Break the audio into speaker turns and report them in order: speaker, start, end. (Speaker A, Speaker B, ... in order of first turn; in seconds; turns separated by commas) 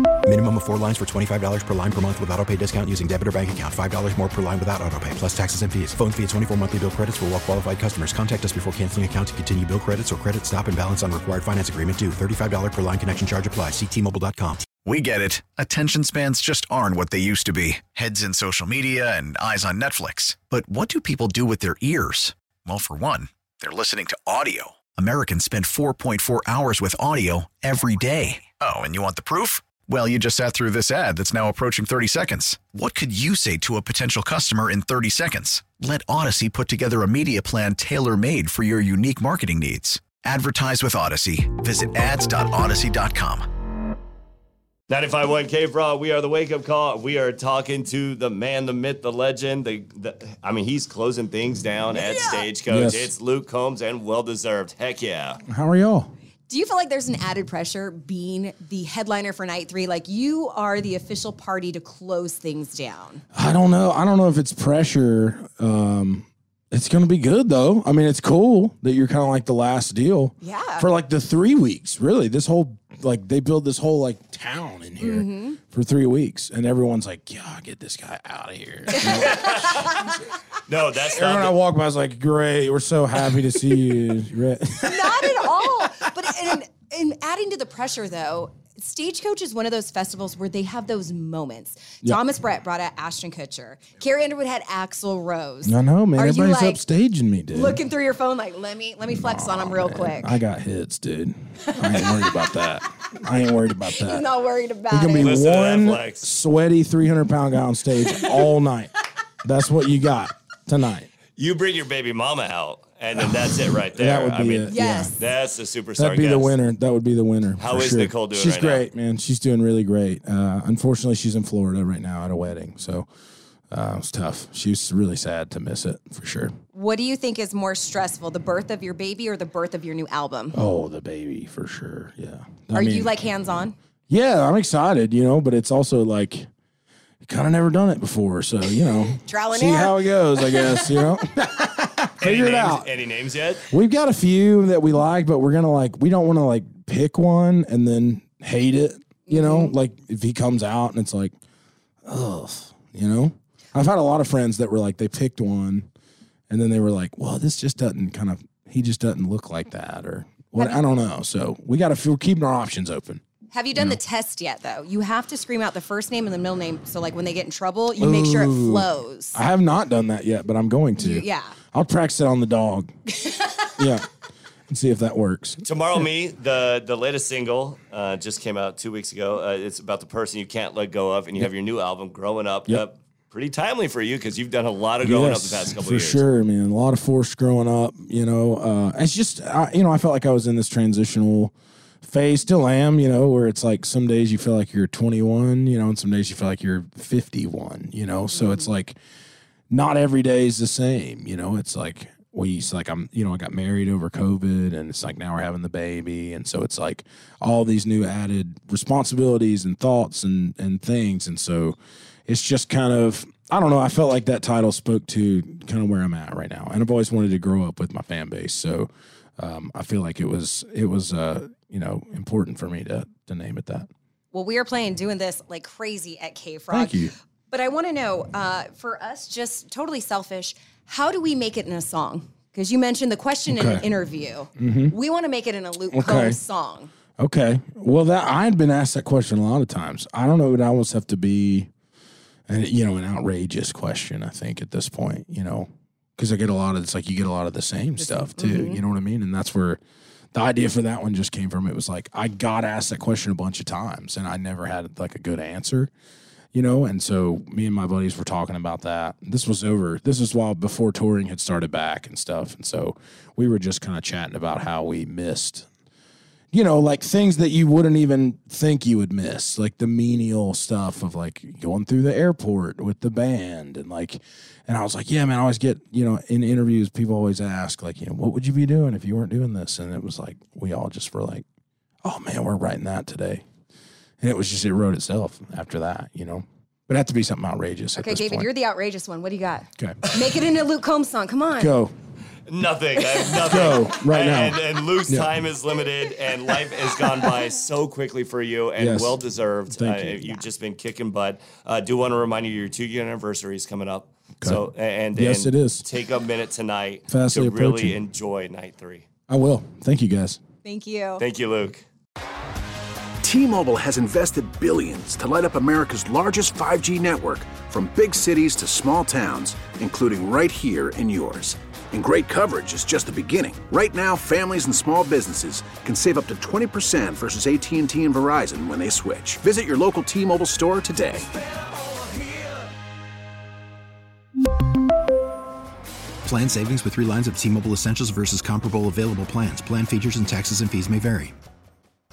Speaker A: 0.2-14.7, Speaker B: 14.8-43.5, Speaker C: 44.9-55.4, Speaker D: 51.9-52.5, Speaker E: 52.7-53.1, Speaker E: 55.5-56.1, Speaker D: 56.5-63.2, Speaker E: 63.3-79.9, Speaker D: 70.4-70.9, Speaker D: 75.0-75.6, Speaker C: 79.0-79.7, Speaker C: 80.7-81.5, Speaker E: 81.1-85.9, Speaker D: 84.8-96.8, Speaker E: 95.6-97.8, Speaker D: 97.5-100.3, Speaker E: 99.1-104.2, Speaker D: 101.6-102.6, Speaker D: 103.8-105.4, Speaker E: 104.9-108.9, Speaker C: 105.2-106.3, Speaker D: 108.1-108.5, Speaker E: 109.4-111.1, Speaker C: 111.4-116.6, Speaker E: 113.2-115.2, Speaker D: 114.7-115.2, Speaker E: 116.0-123.1, Speaker C: 117.6-118.9, Speaker E: 123.7-126.5, Speaker D: 126.7-130.6, Speaker E: 130.5-133.1, Speaker D: 132.7-133.7, Speaker E: 134.1-136.5, Speaker E: 137.2-142.9, Speaker D: 138.8-141.2, Speaker C: 142.2-143.7, Speaker E: 143.7-151.3, Speaker D: 149.3-149.7, Speaker E: 152.0-155.9, Speaker E: 156.5-163.2, Speaker D: 160.6-160.8, Speaker D: 163.5-169.4, Speaker E: 163.7-164.0, Speaker E: 168.0-172.9, Speaker D: 171.0-171.5, Speaker E: 173.8-174.1, Speaker E: 174.7-176.0, Speaker C: 175.6-186.2, Speaker E: 185.0-199.0, Speaker D: 198.3-198.7, Speaker E: 199.7-211.8, Speaker E: 212.3-223.9, Speaker D: 224.3-236.9, Speaker E: 226.7-227.1, Speaker E: 233.5-233.8, Speaker E: 234.6-234.9, Speaker E: 235.9-236.4, Speaker E: 237.2-241.7, Speaker E: 242.5-249.8, Speaker D: 248.0-248.8, Speaker E: 250.3-255.9, Speaker E: 256.5-265.7, Speaker E: 266.5-281.4, Speaker E: 282.0-283.4, Speaker E: 284.2-288.5, Speaker D: 288.0-291.8, Speaker E: 291.6-291.9, Speaker C: 292.5-309.0, Speaker E: 293.4-295.3, Speaker E: 298.8-300.4, Speaker E: 305.1-305.8, Speaker E: 307.1-308.0, Speaker E: 309.3-310.4, Speaker D: 310.6-311.2, Speaker C: 311.2-311.8, Speaker F: 313.2-331.2, Speaker A: 336.2-341.3